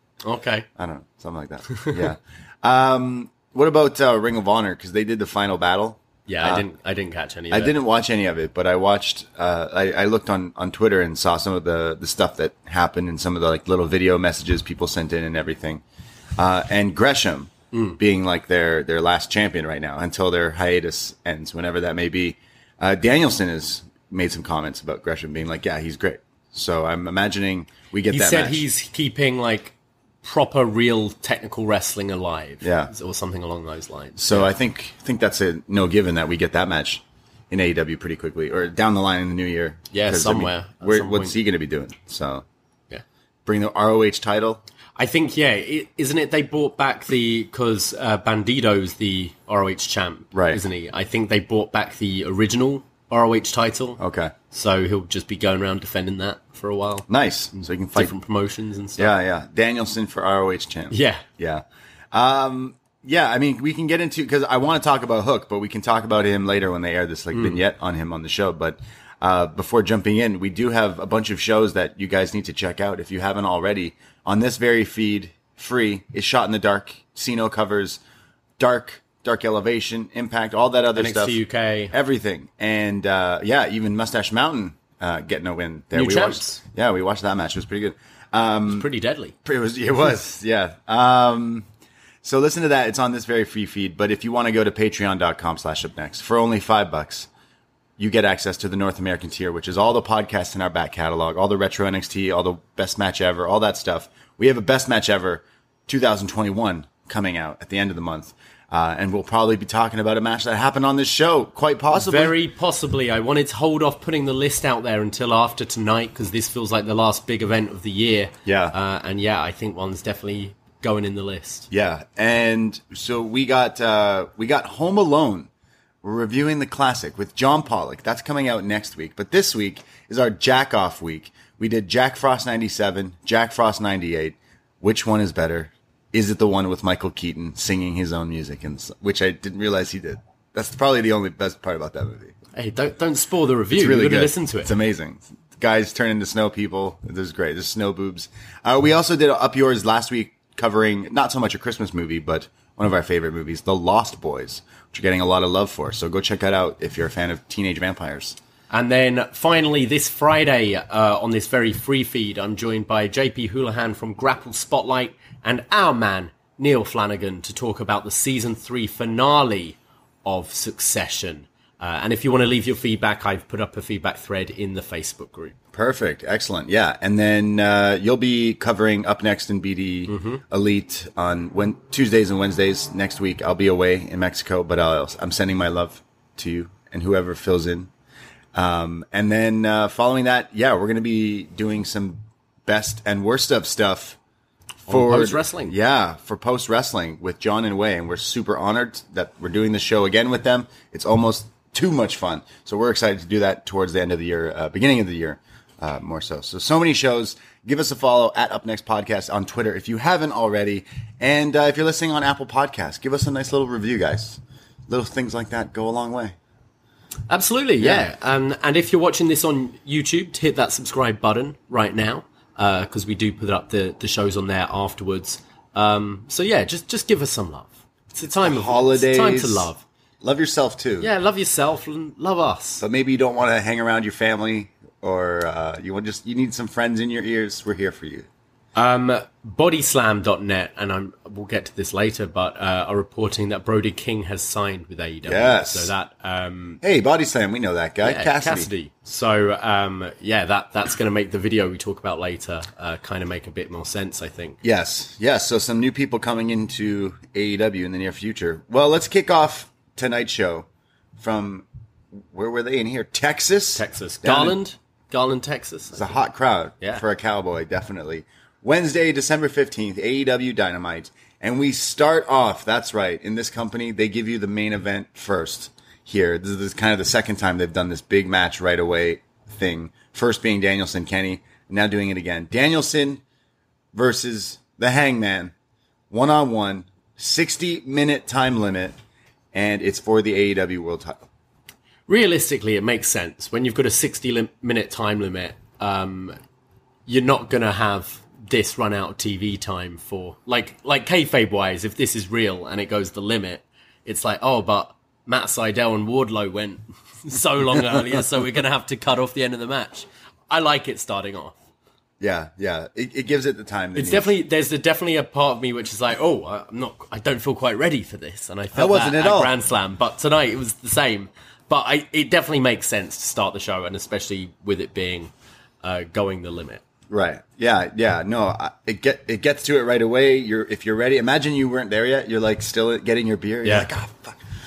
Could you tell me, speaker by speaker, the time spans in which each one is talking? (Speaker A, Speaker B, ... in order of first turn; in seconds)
Speaker A: 0.2-0.7, 1.7-2.0, 6.3-7.8, 17.7-18.0, 28.1-34.5, 39.9-41.4, 45.0-59.1, 60.9-61.2, 67.3-67.6, 80.9-82.0, 85.9-86.6, 88.7-89.3, 111.9-121.7, 142.5-144.7, 158.7-175.5, 180.1-180.4, 194.9-195.8, 217.3-229.8, 231.0-232.8, 238.8-246.8, 248.0-254.6, 263.8-266.2, 292.1-296.4, 297.1-311.6, 313.9-325.3, 325.8-326.8, 333.6-333.9
Speaker B: 0.8-6.7, 7.5-15.8, 16.4-28.6, 32.6-32.9, 34.2-42.4, 43.5-44.6, 50.3-50.6, 54.0-54.3, 57.1-58.1, 59.0-78.0, 78.6-88.9, 89.5-91.7, 92.2-97.3, 98.0-112.4, 118.5-118.8, 121.7-125.5, 126.0-142.3, 143.7-158.4, 175.7-187.9, 188.5-194.2, 194.9-216.4, 217.8-218.1, 228.3-229.7, 230.2-231.1, 232.8-238.3, 245.2-245.9, 246.8-248.7, 254.6-260.7, 261.2-261.7, 262.2-264.6, 265.9-283.2, 283.9-285.5, 286.1-288.9, 289.5-291.3, 312.2-314.3, 318.7-319.6, 327.1-334.4